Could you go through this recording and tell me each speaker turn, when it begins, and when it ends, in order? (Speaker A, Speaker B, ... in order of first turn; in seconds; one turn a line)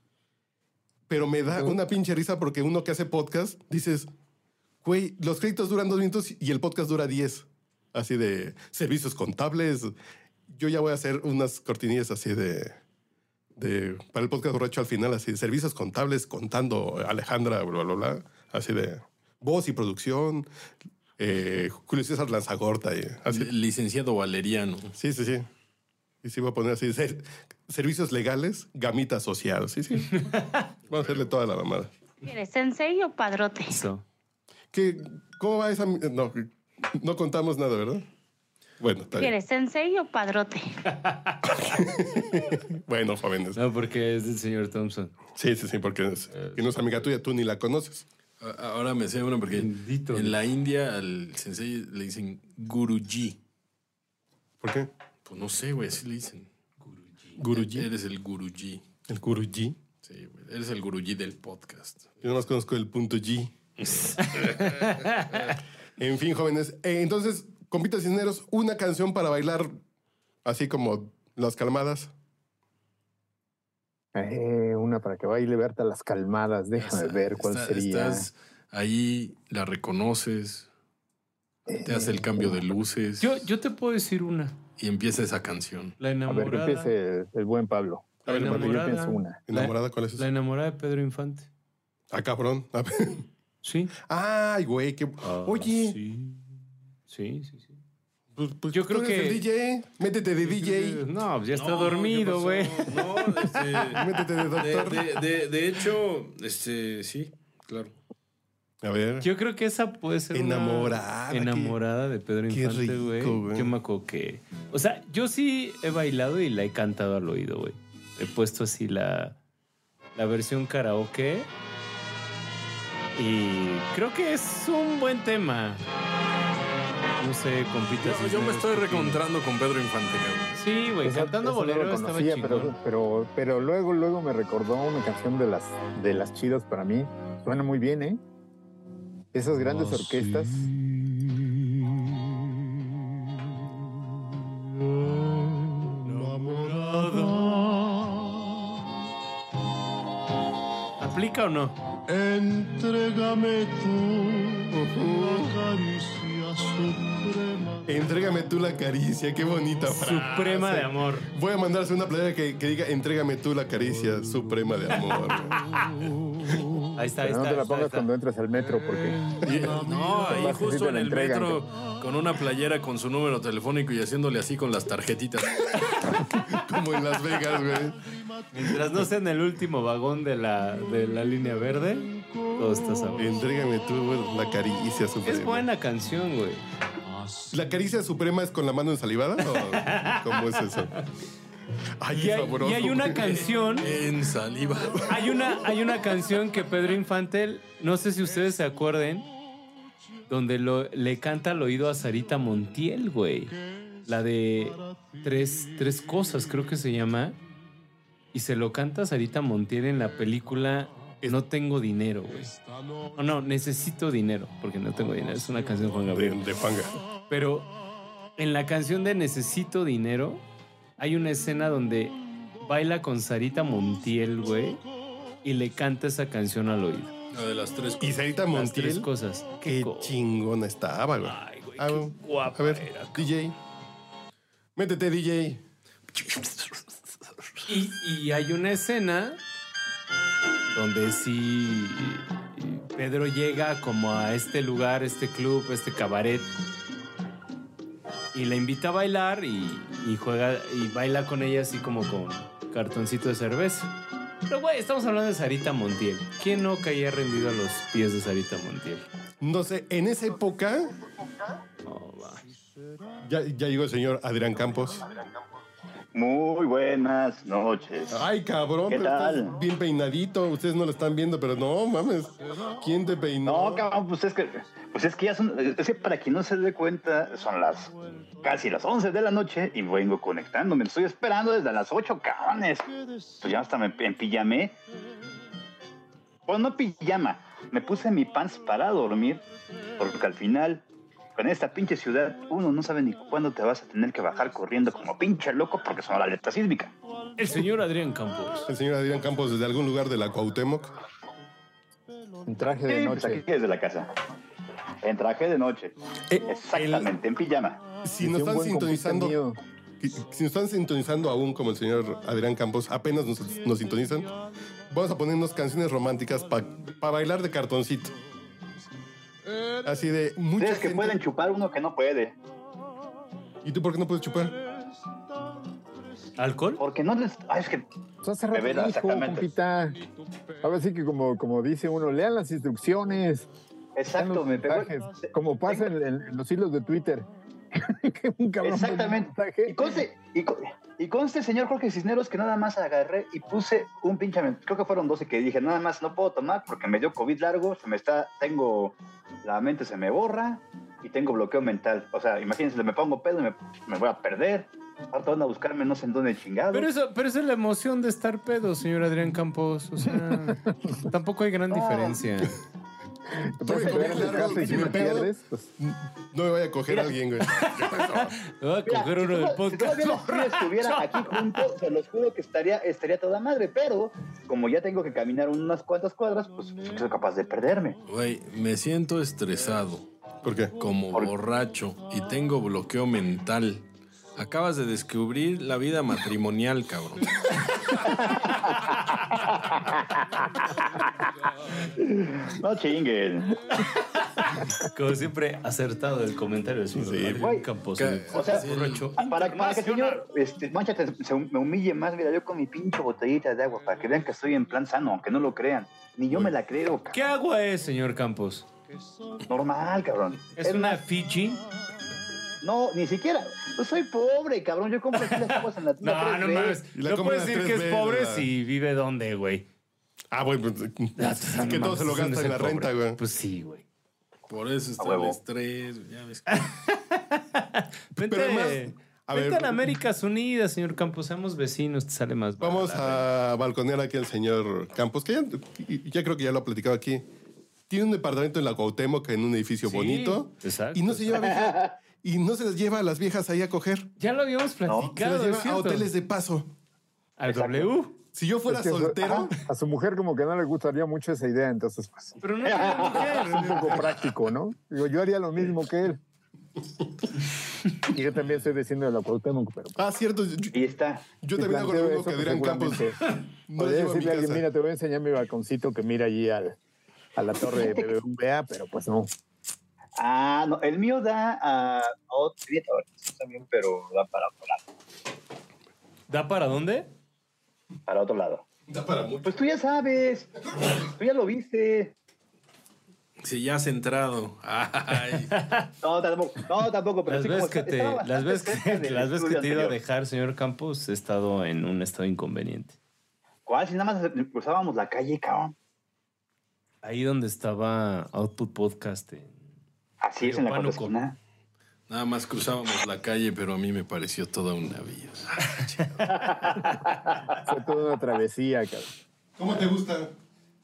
Speaker A: 1.1-4.1
Speaker A: 4.8-9.9
Speaker A: 10.5-12.8
Speaker A: 13.6-20.5
Speaker A: 21.2-23.5
Speaker B: 23.3-24.9
Speaker A: 25.0-25.5
Speaker A: 26.2-30.2
Speaker C: 30.1-30.7
Speaker A: 30.9-31.9
Speaker D: 32.2-33.8
Speaker C: 33.7-34.0
Speaker A: 34.7-38.0
Speaker A: 38.8-39.3
Speaker D: 39.1-40.7
Speaker C: 40.9-41.5
Speaker A: 41.4-43.6
Speaker C: 43.5-45.1
Speaker A: 45.4-48.0
Speaker B: 48.4-53.4
Speaker C: 49.5-50.4
Speaker A: 54.6-54.9
Speaker B: 55.2-56.5
Speaker C: 56.8-57.4
Speaker A: 57.4-57.9
Speaker B: 57.5-58.9
Speaker A: 59.0-59.8
Speaker B: 60.0-62.3
Speaker A: 62.2-63.5
Speaker B: 63.8-65.5
Speaker C: 64.2-65.3
Speaker A: 66.0-69.7
Speaker A: 70.4-72.1
Speaker E: 74.1-78.3
Speaker B: 76.8-80.7
Speaker E: 81.7-82.6
Speaker B: 81.8-83.3
Speaker C: 83.2-84.6
Speaker B: 84.8-86.0
Speaker C: 86.0-86.9
Speaker E: 86.3-89.4
Speaker C: 88.2-91.5
Speaker A: 88.3-88.8
Speaker A: 89.5-90.2
Speaker A: 92.1-93.2
Speaker C: 93.6-93.9
Speaker A: 94.0-96.0
Speaker C: 95.2-96.4
Speaker C: 97.1-97.8
Speaker A: 98.3-101.0
Speaker C: 98.7-99.4
Speaker C: 100.4-103.6
Speaker B: 101.5-107.9
Speaker A: 104.0-105.1
Speaker A: 108.8-109.3
Speaker C: 109.2-119.4
Speaker A: 110.3-111.8
Speaker A: 112.5-113.7
Speaker C: 120.2-121.5
Speaker C: 123.1-125.8
Speaker C: 127.2-129.2
Speaker B: 128.0-130.6
Speaker C: 130.6-132.7
Speaker E: 131.0-138.2
Speaker E: 139.3-140.7
Speaker C: 146.0-147.5
Speaker C: 151.0-151.8
Speaker F: 152.2-154.6
Speaker A: 154.7-155.5
Speaker F: 155.8-157.3
Speaker A: 157.8-165.6
Speaker C: 159.8-161.3
Speaker C: 166.9-168.1
Speaker E: 167.2-169.5
Speaker B: 169.4-175.6
Speaker E: 170.1-171.6
Speaker A: 176.5-178.0
Speaker C: 178.5-183.3
Speaker A: 183.2-185.6
Speaker C: 185.2-186.6
Speaker A: 187.5-190.9
Speaker C: 189.5-191.0
Speaker A: 192.0-193.2
Speaker C: 192.1-193.9
Speaker B: 193.2-195.1
Speaker C: 195.1-199.3
Speaker C: 200.3-207.4
Speaker C: 208.3-212.5
Speaker C: 213.1-216.4
Speaker A: 216.1-216.9
Speaker C: 217.3-217.7
Speaker C: 218.4-220.4
Speaker C: 221.0-224.8
Speaker C: 225.4-227.1
Speaker B: 227.3-228.3
Speaker A: 228.0-229.1
Speaker C: 228.5-230.2
Speaker A: 229.6-233.5
Speaker C: 231.2-233.3
Speaker A: 234.8-235.6
Speaker C: 237.7-239.4
Speaker C: 240.7-246.5
Speaker C: 248.3-253.9
Speaker C: 254.5-259.1
Speaker A: 259.4-260.9
Speaker C: 261.8-262.4
Speaker A: 263.2-265.1
Speaker G: 266.1-268.2
Speaker A: 268.1-273.9
Speaker G: 268.9-269.5
Speaker G: 273.4-282.9
Speaker G: 283.4-284.8
Speaker G: 286.5-289.4
Speaker G: 290.0-290.8
Speaker G: 291.4-296.9
Speaker C: 297.4-298.7
Speaker A: 298.7-300.9
Speaker E: 302.4-303.4
Speaker G: 302.9-304.1
Speaker G: 305.0-305.9
Speaker A: 306.3-307.1
Speaker G: 306.5-307.8
Speaker A: 308.0-309.4
Speaker E: 308.2-309.6
Speaker A: 310.0-314.3
Speaker A: 314.9-318.1
Speaker A: 319.8-321.2
Speaker G: 320.6-322.3
Speaker A: 323.6-324.5
Speaker C: 326.4-326.8
Speaker G: 326.8-327.8
Speaker E: 328.2-330.0
Speaker G: 328.5-329.5
Speaker E: 330.6-333.4
Speaker G: 333.9-334.9
Speaker E: 334.1-339.9
Speaker G: 338.6-356.9
Speaker C: 356.7-362.5
Speaker E: 360.5-360.7
Speaker G: 361.7-362.2
Speaker E: 363.6-365.7
Speaker A: 363.6-368.3
Speaker G: 363.9-364.9
Speaker G: 366.9-367.1
Speaker C: 367.4-371.4
Speaker G: 368.9-378.0
Speaker B: 378.1-380.1
Speaker A: 380.4-380.8
Speaker B: 380.8-383.8
Speaker B: 384.4-387.2
Speaker C: 388.1-388.5
Speaker G: 391.9-393.6
Speaker C: 394.4-400.2
Speaker A: 396.9-397.4
Speaker B: 397.9-399.1
Speaker G: 398.3-398.6
Speaker G: 399.2-407.2
Speaker C: 407.1-408.6
Speaker G: 409.5-411.0
Speaker C: 410.6-411.6
Speaker G: 412.6-416.8
Speaker C: 416.0-419.6
Speaker A: 416.9-418.5
Speaker A: 420.3-423.2
Speaker C: 421.2-423.8
Speaker B: 424.5-426.7
Speaker G: 425.0-425.4
Speaker C: 426.5-433.3
Speaker A: 428.2-430.0
Speaker A: 432.6-437.2
Speaker A: 437.9-444.1
Speaker C: 439.8-441.4
Speaker G: 441.4-441.9
Speaker C: 444.2-446.1
Speaker G: 444.9-445.1
Speaker A: 445.1-446.7
Speaker C: 447.4-448.1
Speaker G: 447.5-447.9
Speaker A: 448.3-449.5
Speaker E: 448.7-452.4
Speaker C: 452.4-454.1
Speaker G: 452.6-453.6
Speaker E: 453.3-456.2
Speaker E: 458.1-460.0
Speaker A: 460.0-460.8
Speaker G: 460.7-461.2
Speaker A: 461.3-463.1
Speaker E: 461.6-463.2
Speaker A: 463.7-464.6
Speaker E: 463.8-466.8
Speaker E: 467.4-469.3
Speaker G: 467.7-468.1
Speaker G: 470.2-474.8
Speaker C: 476.3-477.1
Speaker G: 478.1-478.6
Speaker A: 478.9-479.5
Speaker G: 479.4-482.1
Speaker B: 483.4-485.5
Speaker C: 485.5-485.9
Speaker G: 486.0-490.0
Speaker C: 487.3-492.9
Speaker G: 493.6-495.7
Speaker C: 497.0-499.6
Speaker G: 500.2-501.4
Speaker C: 500.4-501.1
Speaker B: 502.1-506.2
Speaker G: 506.3-507.5
Speaker E: 507.6-509.1
Speaker A: 509.6-510.3